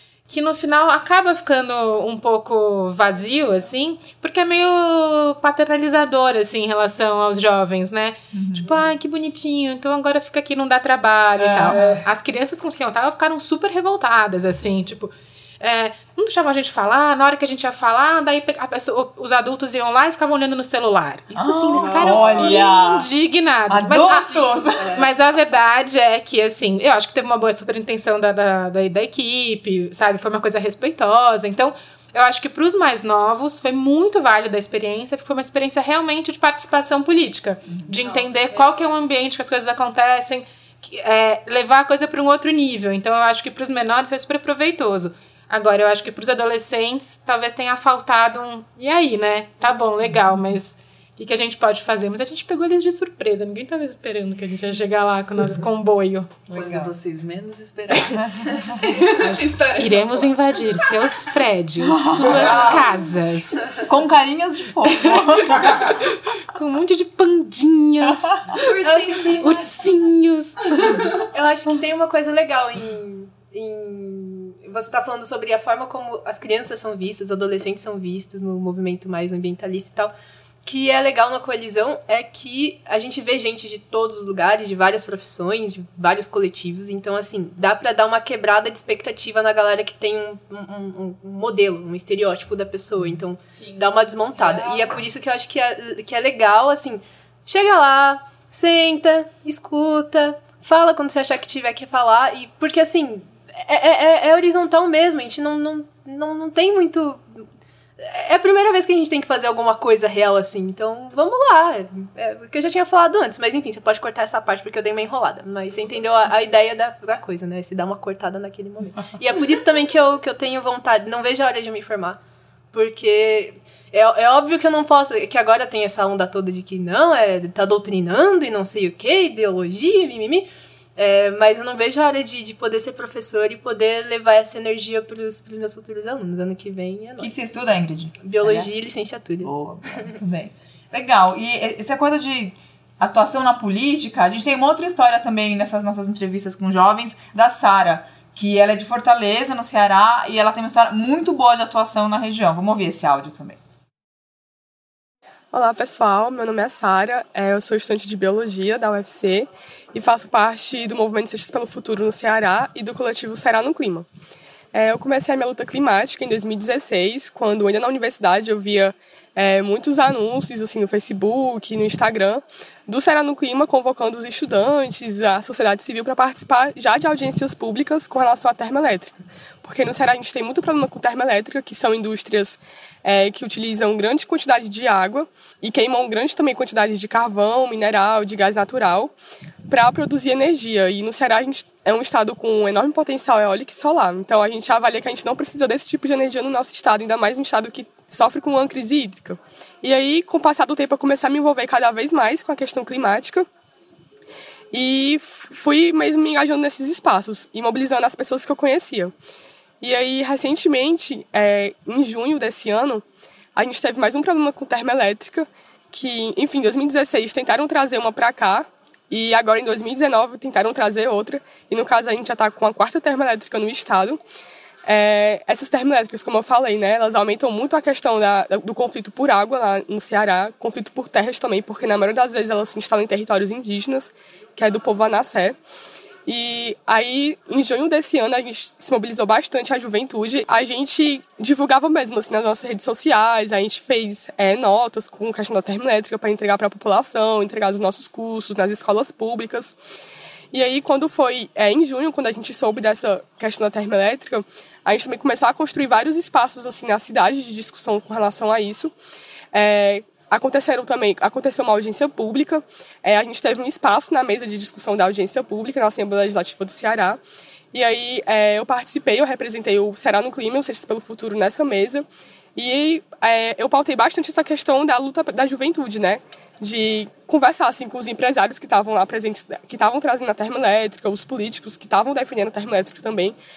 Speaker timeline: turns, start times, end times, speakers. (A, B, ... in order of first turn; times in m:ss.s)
0:00.3-0:56.5 A
0:08.3-0:08.8 B
0:11.4-0:11.8 B
0:21.3-0:23.1 B
0:21.8-0:22.7 C
0:23.7-0:24.9 B
0:24.8-0:25.1 C
0:37.7-0:38.0 B
0:38.1-0:38.7 D
0:56.5-1:00.9 D
0:56.5-0:56.9 B
0:57.9-0:58.3 A
0:59.0-1:03.6 A
1:01.9-1:02.9 B
1:03.8-1:05.9 B
1:04.8-1:08.8 A
1:08.6-1:09.7 D
1:08.8-1:09.6 C
1:09.4-1:11.2 A
1:11.3-1:20.1 C
1:20.6-1:47.5 C
1:33.5-1:34.9 D
1:48.0-2:02.2 C
2:02.7-2:17.3 C
2:17.2-2:18.8 B
2:18.2-2:19.5 C
2:19.4-2:33.6 B
2:35.5-2:44.1 E
2:44.7-3:09.1 E
3:09.7-3:23.5 E
3:24.7-3:29.1 E
3:29.8-3:33.0 E
3:33.6-3:44.2 E
3:44.9-3:55.6 E
3:56.3-4:09.8 E
4:10.5-4:18.9 E
4:19.5-4:27.2 E
4:27.7-4:32.0 E
4:32.6-4:43.4 E